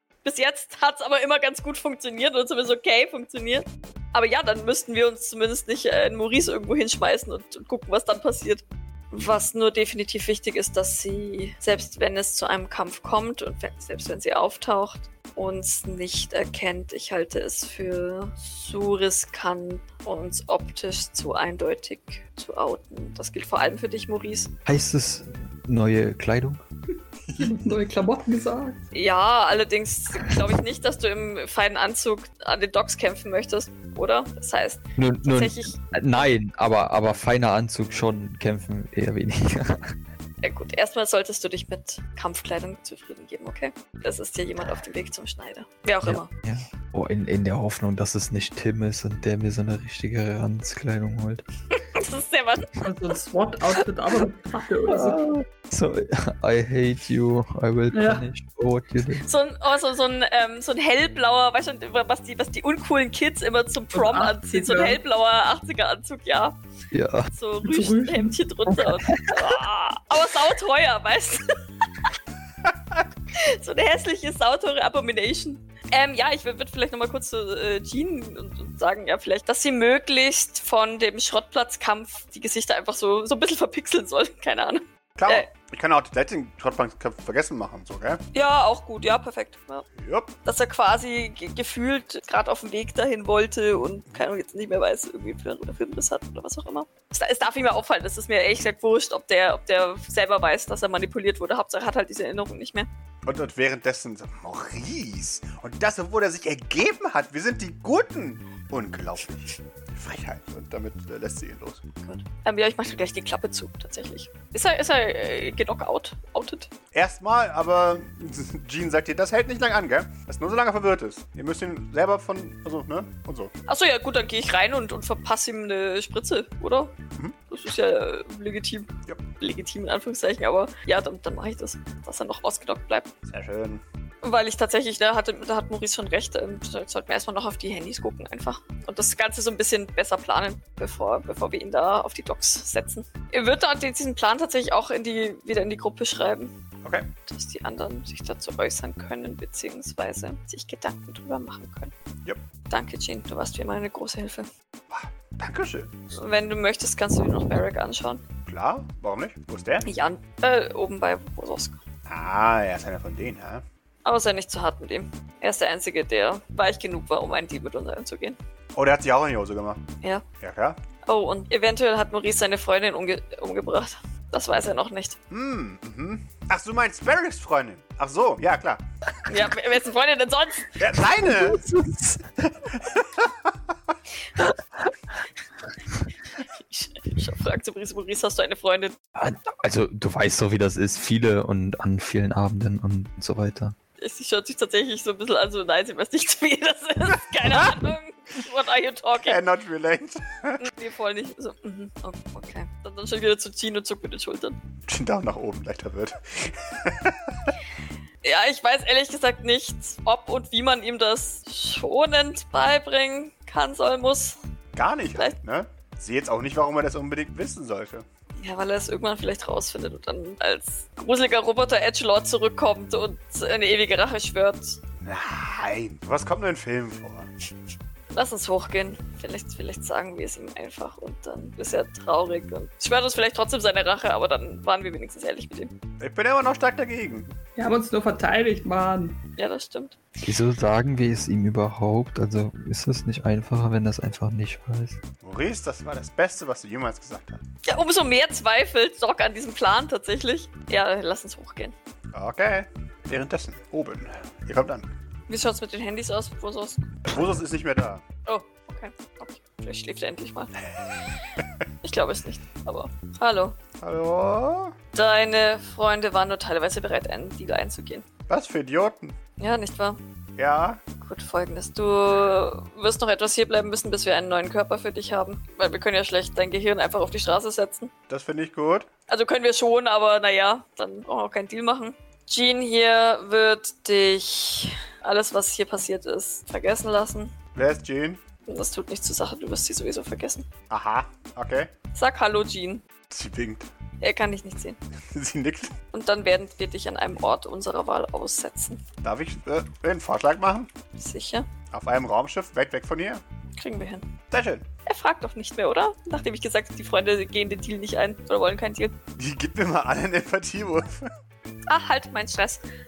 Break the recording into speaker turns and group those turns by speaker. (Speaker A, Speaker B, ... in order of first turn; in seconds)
Speaker A: 0.2-24.5, 28.9-35.8, 40.4-46.3, 51.7-52.8, 59.2-66.6, 67.3-71.5, 73.3-85.5, 88.3-89.9, 90.5-102.9, 112.0-116.7, 123.7-127.0, 127.5-133.1, 134.2-146.5, 147.3-151.9, 152.7-154.5, 156.1-158.2, 159.8-161.8, 164.1-168.4, 171.1-175.2, 179.3-180.8, 186.5-189.0, 194.0-199.4, 200.6-204.6, 208.2-214.4, 218.4-224.8, 228.1-235.7, 239.4-240.0, 247.7-251.8, 255.3-257.1, 258.3-260.5, 261.8-263.6, 264.9-268.1, 269.4-270.0, 271.0-277.9, 279.1-287.4, 288.5-290.5, 291.9-292.8, 294.0-294.8, 295.9-298.8, 300.9-301.5, 303.6-304.1, 304.9-309.0, 311.7-312.6
Speaker B: 24.7-26.6, 35.0-40.0, 46.0-51.4, 54.9-59.3, 66.9-67.3, 68.7-69.5, 181.1-182.5, 184.4-184.9, 189.2-193.8, 240.2-245.0
Speaker C: 27.3-27.6, 85.2-88.2, 90.0-90.3, 103.2-111.8, 116.9-123.5, 133.3-133.8, 146.8-147.1, 154.9-155.9, 158.5-159.9, 162.1-163.6, 168.8-169.8, 170.4-170.8, 175.3-178.8, 180.8-181.7, 182.7-183.5, 199.2-200.6, 204.9-207.6, 214.8-218.1, 225.0-227.3, 236.0-237.3, 245.2-247.4, 252.1-254.9, 257.1-258.0, 263.8-264.7, 268.3-269.2, 270.4-270.8, 278.1-278.9, 287.5-288.2, 290.7-291.7, 293.1-293.7, 295.1-295.7, 299.0-300.7, 301.7-303.2, 304.3-304.7, 309.2-311.1
Speaker D: 27.4-28.8, 52.8-55.3, 57.9-58.3, 63.9-65.0, 67.6-68.4, 237.6-239.2